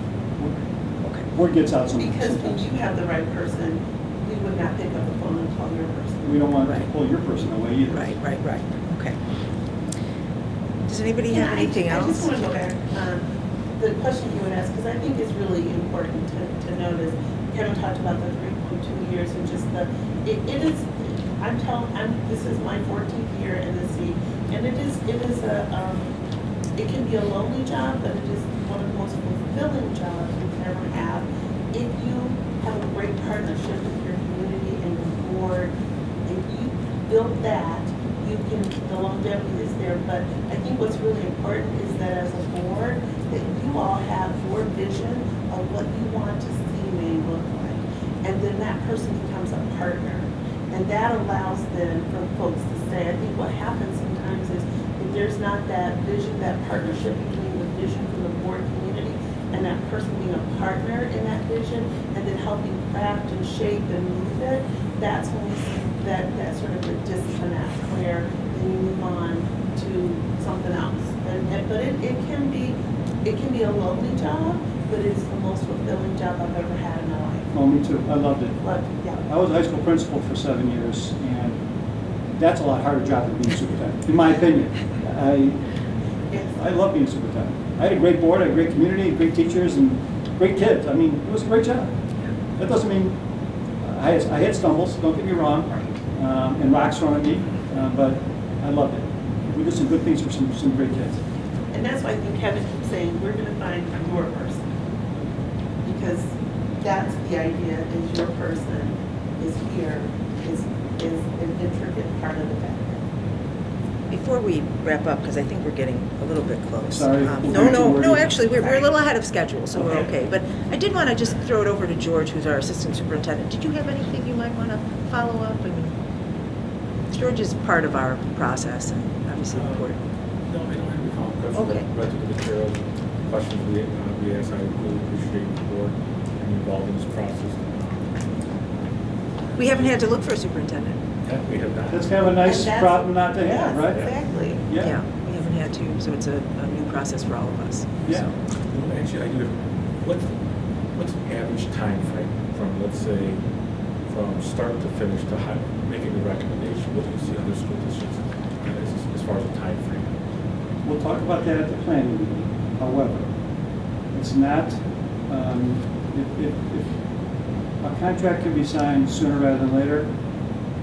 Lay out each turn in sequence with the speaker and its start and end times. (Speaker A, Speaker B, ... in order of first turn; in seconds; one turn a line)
Speaker A: 1.3-2.7
Speaker B: 1.9-6.3
Speaker A: 6.2-8.2
Speaker C: 6.6-6.9
Speaker C: 7.9-9.2
Speaker C: 10.8-12.3
Speaker B: 11.3-13.2
Speaker B: 13.8-26.1
Speaker B: 26.8-35.7
Speaker B: 36.2-77.5
Speaker A: 77.5-78.6
Speaker B: 78.6-79.2
Speaker A: 79.2-81.6
Speaker A: 82.3-85.6
Speaker A: 86.5-91.9
Speaker A: 92.5-93.2
Speaker A: 93.8-101.2
Speaker B: 101.7-104.6
Speaker B: 105.8-113.0
Speaker C: 114.1-125.9
Speaker A: 116.9-118.4
Speaker B: 118.6-118.9
Speaker C: 127.1-130.0
Speaker D: 129.5-129.9
Speaker D: 130.5-138.1
Speaker C: 131.5-131.8
Speaker C: 139.6-141.0
Speaker D: 141.2-142.1
Speaker A: 141.9-145.0
Speaker B: 142.4-144.6
Speaker C: 144.8-148.3
Speaker A: 148.0-148.3
Speaker D: 148.7-150.4
Speaker D: 150.9-153.4
Speaker D: 154.1-160.1
Speaker A: 160.8-163.3
Speaker A: 164.1-167.0
Speaker A: 167.8-170.1